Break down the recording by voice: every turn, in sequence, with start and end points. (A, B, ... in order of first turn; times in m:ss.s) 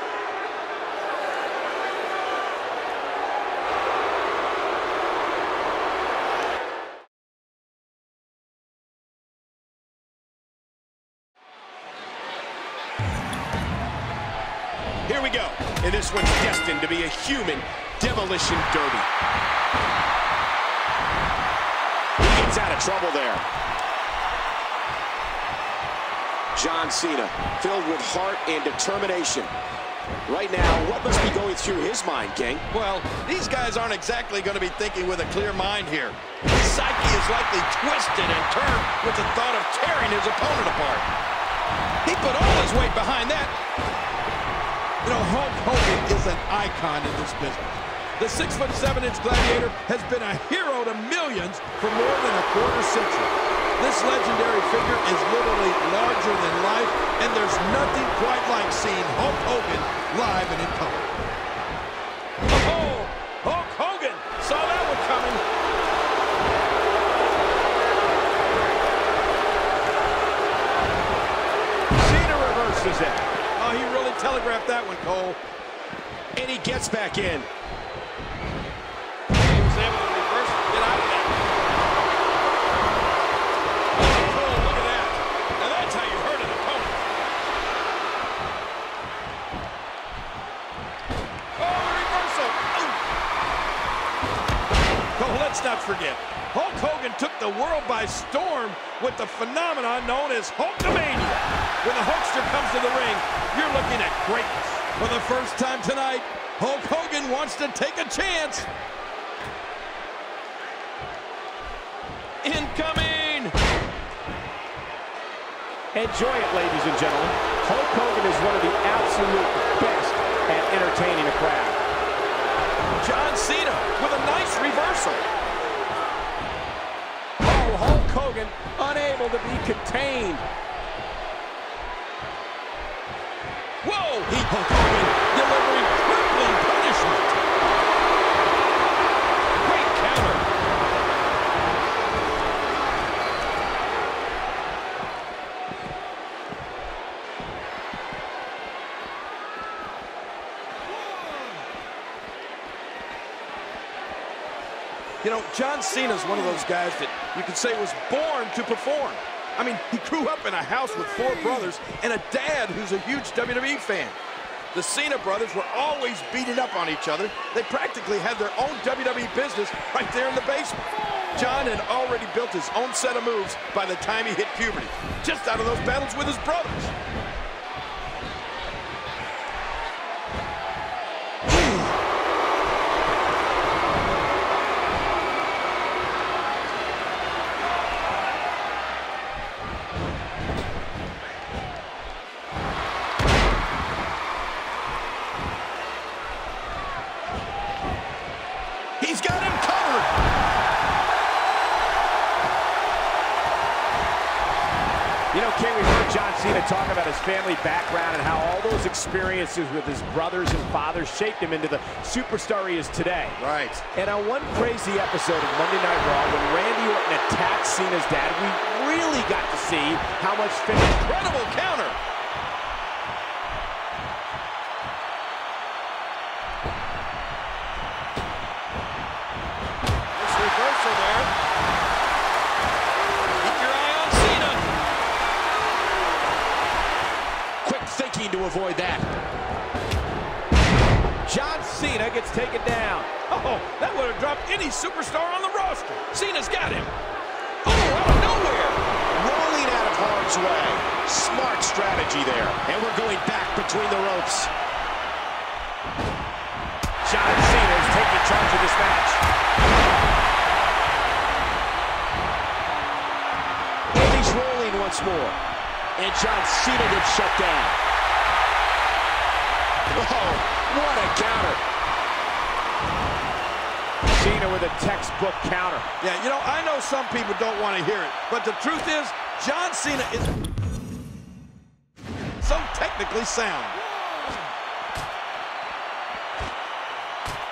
0:15.1-0:19.1 A
0:22.2-0:23.4 A
0:26.6-0:29.5 A
0:30.3-0:32.6 A
0:32.7-0:41.1 B
0:42.0-0:43.5 B
0:45.0-1:01.1 B
1:02.5-1:05.4 B
1:12.0-1:13.2 C
1:13.6-1:15.4 B
1:16.4-1:17.5 A
1:19.4-1:21.4 B
1:24.0-1:27.0 B
1:31.6-1:33.0 B
1:35.2-1:48.7 B
1:52.4-1:53.5 B
1:55.9-2:01.8 C
2:03.0-2:05.3 B
2:07.4-2:10.4 C
2:13.8-2:17.4 B
2:19.6-2:20.5 B
2:35.2-2:44.2 B
2:44.7-2:56.9 B
3:19.0-3:20.1 B
3:25.3-3:33.4 C
3:33.4-3:33.8 B
3:34.0-3:41.0 C
3:41.0-3:42.0 B
3:50.2-3:51.3 B
3:53.4-3:54.6 B
3:57.7-3:59.0 A
3:57.7-3:58.8 C
4:01.2-4:03.1 C
4:03.3-4:06.9 B
4:07.6-4:08.8 B
4:09.2-4:14.5 A
4:17.0-4:19.2 C
4:24.0-4:25.4 A
4:24.2-4:25.1 C
4:26.0-4:27.8 C
4:29.9-4:31.6 A
4:34.1-4:35.9 C
4:36.0-4:40.4 B
4:42.4-4:43.8 B